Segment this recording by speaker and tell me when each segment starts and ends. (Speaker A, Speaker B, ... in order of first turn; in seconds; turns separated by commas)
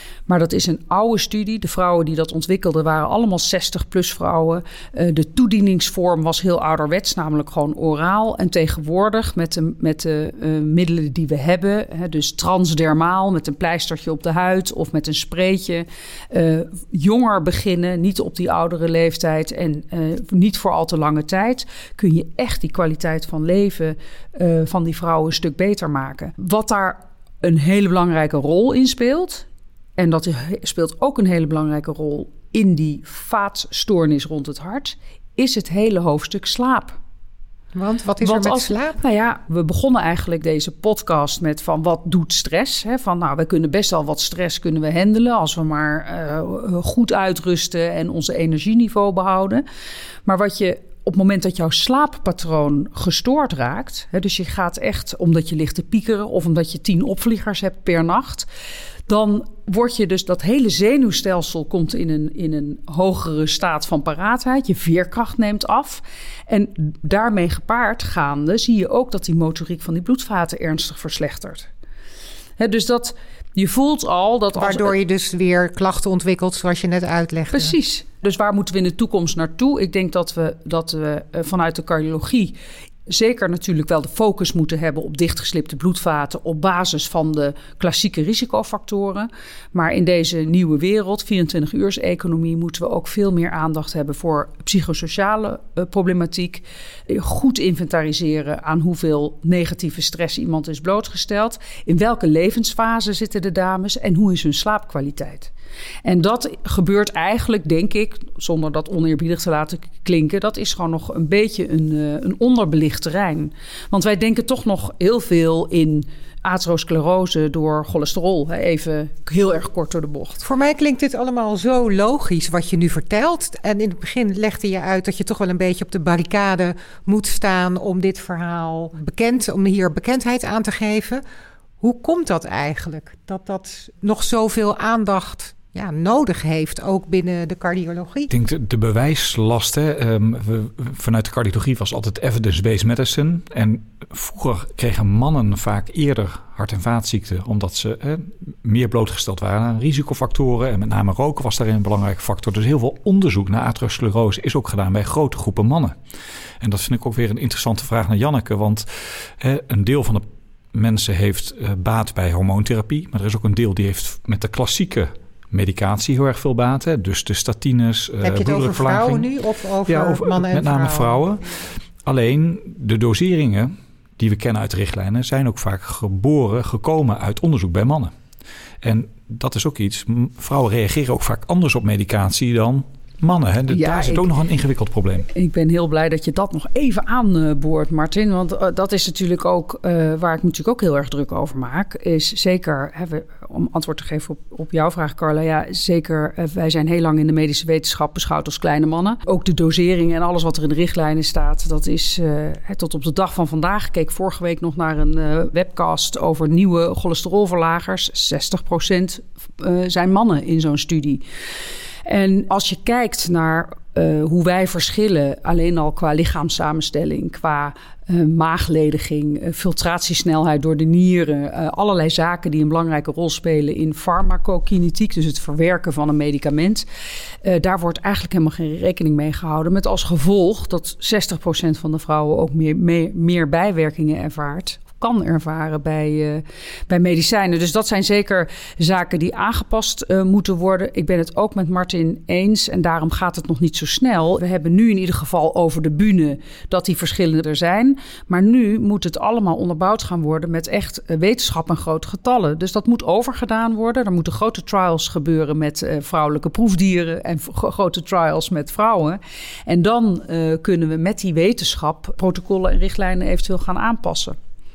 Speaker A: 0.3-29.5, Speaker A: 30.0-37.0, Speaker B: 37.7-39.0, Speaker A: 38.2-49.6, Speaker A: 50.3-58.5, Speaker A: 59.1-71.7, Speaker A: 72.6-75.0, Speaker B: 74.6-77.8, Speaker A: 77.5-82.6, Speaker A: 83.1-105.5, Speaker A: 106.0-120.4, Speaker B: 120.4-131.2, Speaker B: 131.8-138.3, Speaker C: 138.3-155.9, Speaker C: 156.6-169.3, Speaker B: 168.2-171.2, Speaker C: 169.9-171.4, Speaker C: 172.0-178.1, Speaker C: 178.8-185.3, Speaker A: 183.7-184.3, Speaker A: 185.3-211.2, Speaker A: 212.1-226.8, Speaker A: 227.4-264.4